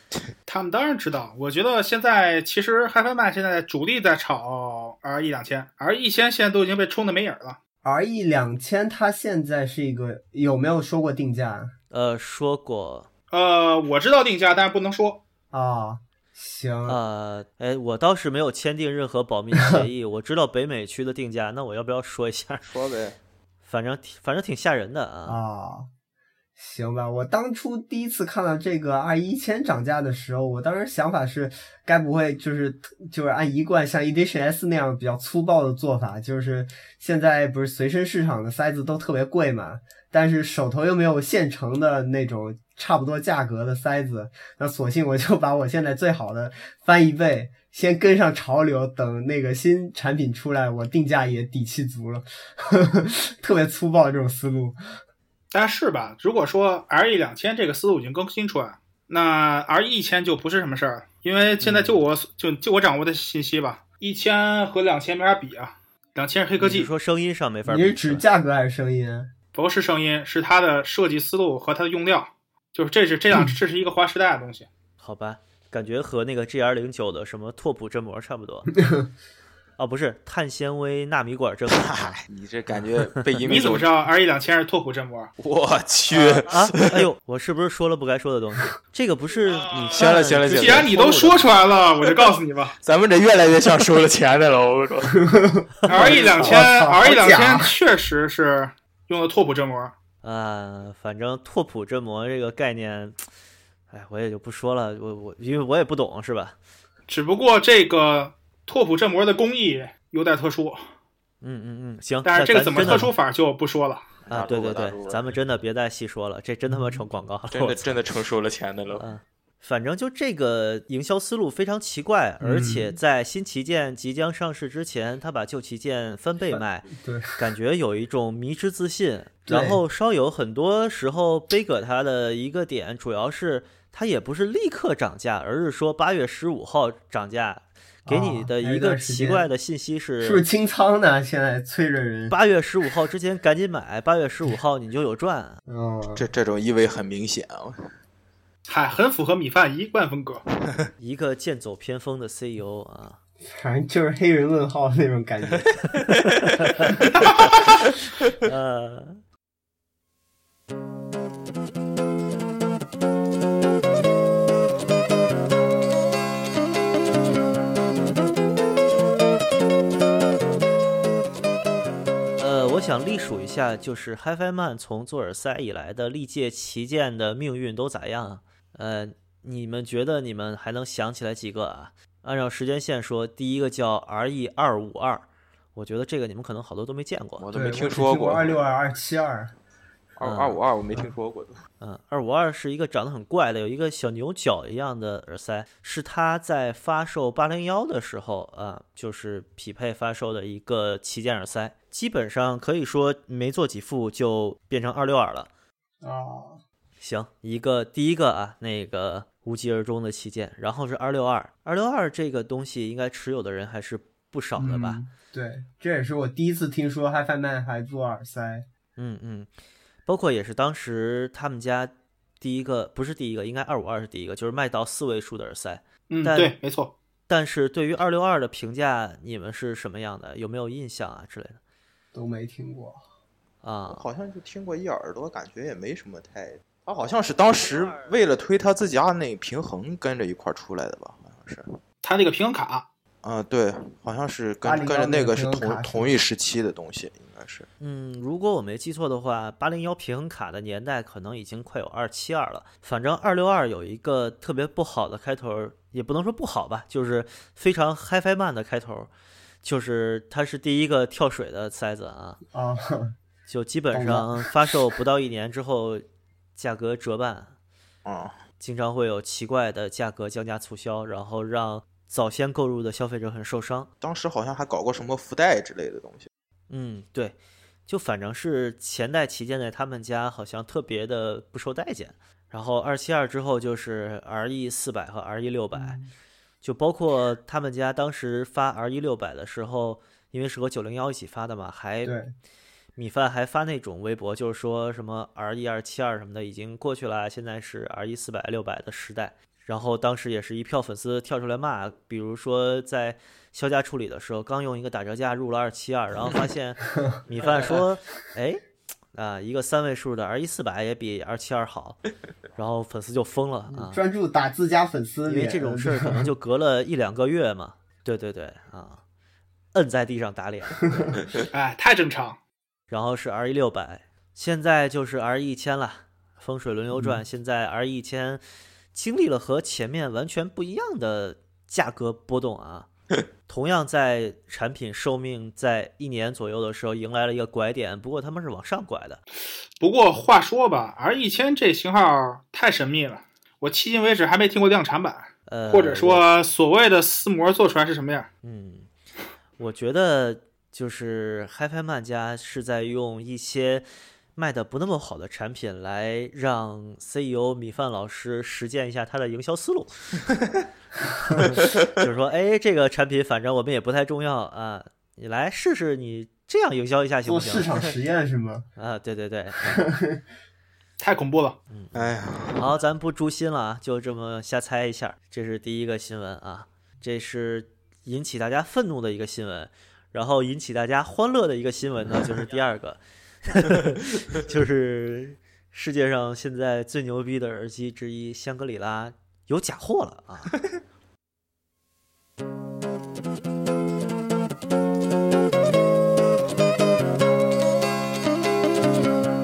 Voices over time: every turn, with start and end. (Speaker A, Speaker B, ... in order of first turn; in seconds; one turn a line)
Speaker A: 0.5-7.6
Speaker B: 7.8-11.7
Speaker C: 11.9-13.1
Speaker A: 13.3-15.2
Speaker B: 15.5-17.0
Speaker C: 16.9-22.7
Speaker B: 19.5-19.8
Speaker D: 22.6-23.1
Speaker C: 23.6-25.4
Speaker B: 25.3-25.9
Speaker B: 26.6-54.8
Speaker A: 55.5-66.9
Speaker C: 61.6-62.0
Speaker C: 66.6-68.2
Speaker B: 67.7-69.3
Speaker A: 69.5-74.7
Speaker C: 75.0-78.7
Speaker B: 78.8-79.1
Speaker C: 79.8-82.2
Speaker D: 81.7-83.9
Speaker C: 82.8-83.2
Speaker A: 83.4-85.3
Speaker D: 85.4-87.0
Speaker C: 86.1-91.5
Speaker D: 89.9-90.9
Speaker A: 89.9-92.8
Speaker D: 92.8-95.2
Speaker B: 95.2-97.7
Speaker A: 95.9-99.9
Speaker C: 96.0-96.3
Speaker C: 100.2-103.2
Speaker C: 103.9-106.5
Speaker A: 107.1-110.8
Speaker C: 111.4-113.1
Speaker A: 112.2-114.1
Speaker D: 114.2-115.3
Speaker C: 114.3-118.0
Speaker B: 116.7-117.0
Speaker D: 117.5-119.0
Speaker C: 118.9-140.4
Speaker B: 122.4-123.0
Speaker B: 126.5-127.3
Speaker B: 129.4-129.8
Speaker B: 138.1-139.5
Speaker B: 140.2-142.3
Speaker C: 142.3-145.6
Speaker B: 145.7-146.2
Speaker D: 146.1-147.9
Speaker A: 148.7-150.4
Speaker C: 151.0-153.2
Speaker B: 153.5-155.7
Speaker C: 156.6-156.9
Speaker C: 158.4-159.2
Speaker C: 172.4-187.4
Speaker D: 187.4-188.6
Speaker B: 187.5-189.5
Speaker D: 190.2-191.6
Speaker C: 190.2-190.6
Speaker C: 191.8-205.5
Speaker B: 206.0-206.6
Speaker C: 207.0-215.0
Speaker B: 214.6-218.7
Speaker C: 219.0-219.5
Speaker C: 220.1-226.6
Speaker A: 226.1-226.9
Speaker C: 227.3-231.6
Speaker B: 232.1-233.0
Speaker C: 233.6-234.0
Speaker D: 233.9-241.8
Speaker A: 242.0-242.8
Speaker D: 243.2-247.7
Speaker B: 244.6-246.1
Speaker C: 247.8-259.1
Speaker C: 259.6-262.4
Speaker B: 262.5-263.2
Speaker C: 263.5-266.0
Speaker B: 263.9-264.5
Speaker C: 266.6-267.5
Speaker D: 268.0-268.4
Speaker C: 268.6-273.9
Speaker D: 274.0-276.3
Speaker C: 276.7-286.0
Speaker B: 285.7-286.1
Speaker C: 286.6-292.1
Speaker B: 292.0-292.3
Speaker C: 292.9-308.6
Speaker D: 307.4-307.8
Speaker C: 309.1-312.0
Speaker C: 312.6-314.0
Speaker B: 313.7-316.3
Speaker C: 315.2-319.0
Speaker C: 319.7-320.9
Speaker A: 321.5-322.4
Speaker C: 322.9-328.4
Speaker C: 328.9-332.9
Speaker C: 333.5-339.2
Speaker A: 339.8-348.3
Speaker C: 345.5-346.2
Speaker C: 348.4-348.9
Speaker C: 349.6-360.2
Speaker C: 361.2-367.7
Speaker B: 367.2-368.7
Speaker C: 368.8-369.9
Speaker B: 369.6-370.2
Speaker A: 371.0-371.6
Speaker C: 371.7-390.6
Speaker D: 371.9-372.7